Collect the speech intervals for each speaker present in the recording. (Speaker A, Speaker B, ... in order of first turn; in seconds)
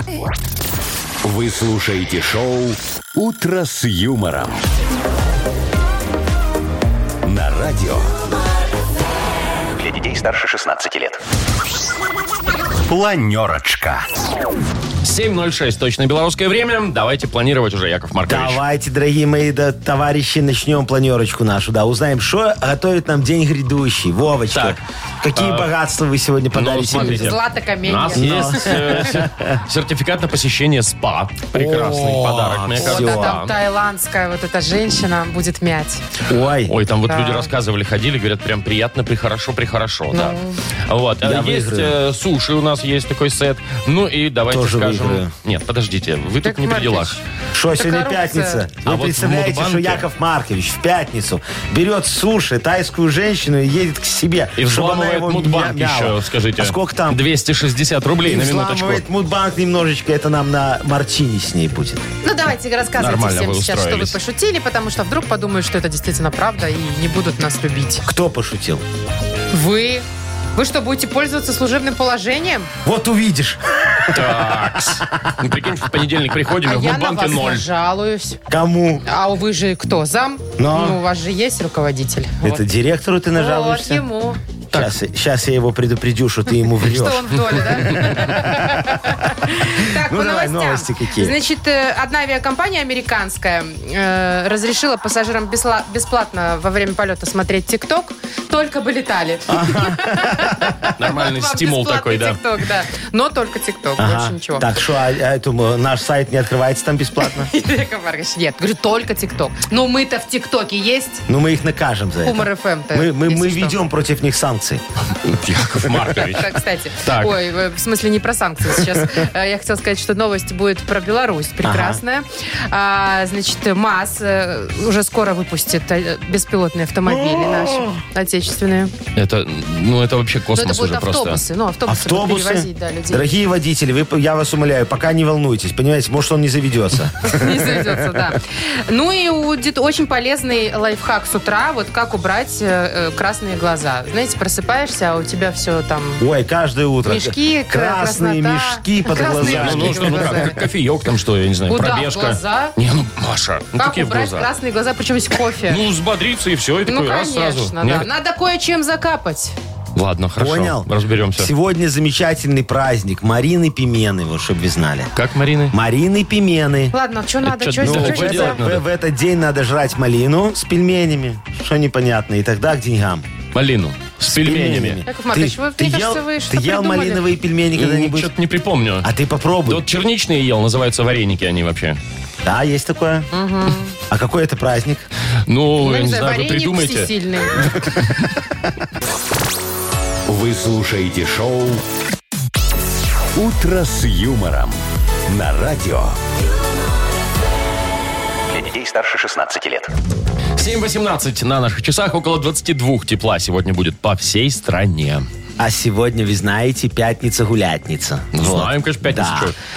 Speaker A: 1.2-4.6, 7.2-8.1, 9.8-11.2, 12.9-14.1, 190.3-191.8, 193.4-194.8, 195.3-196.2, 198.5-199.9
Speaker B: 15.0-18.6, 24.5-24.8, 25.4-25.7, 26.6-33.5, 36.7-40.4, 40.9-47.2, 48.9-50.0, 54.6-59.0, 63.0-64.2, 74.1-77.7, 101.0-102.4, 115.2-117.3, 129.2-131.4, 149.4-154.5, 155.7-158.1, 159.9-161.5, 165.2-165.7, 167.4-168.8, 173.5-175.0, 177.8-179.1, 179.7-182.0, 185.5-187.1, 200.6-205.3, 208.3-209.6
Speaker C: 18.3-27.4, 28.2-29.6, 31.5-33.4, 36.3-36.8, 41.2-42.0, 44.5-45.3, 47.5-57.2, 58.2-62.1, 68.0-68.8, 72.8-75.3, 78.5-79.0, 80.6-81.0, 82.4-84.0, 84.7-91.3, 99.5-100.9, 104.0-107.5, 111.3-114.8, 121.6-122.0, 127.1-128.0, 131.9-138.3, 146.2-150.7, 160.4-165.1, 165.7-166.9, 167.8-173.3, 174.3-178.3, 179.0-179.8, 182.4-183.3, 184.1-185.1, 205.6-209.5
Speaker D: 26.9-29.0, 32.8-36.0, 37.1-37.5, 40.1-40.6, 46.4-47.2, 47.8-48.6, 62.2-68.0, 69.5-70.0, 70.6-72.7, 76.6-78.4, 79.0-82.6, 83.3-84.4, 86.8-104.7, 107.3-111.2, 112.2-113.8, 116.2-128.9, 130.5-133.3, 137.2-146.2, 147.1-150.6, 151.7-152.7, 153.8-155.8, 156.9-159.5, 166.9-168.6, 175.1-177.2, 183.3-183.9, 185.8-187.8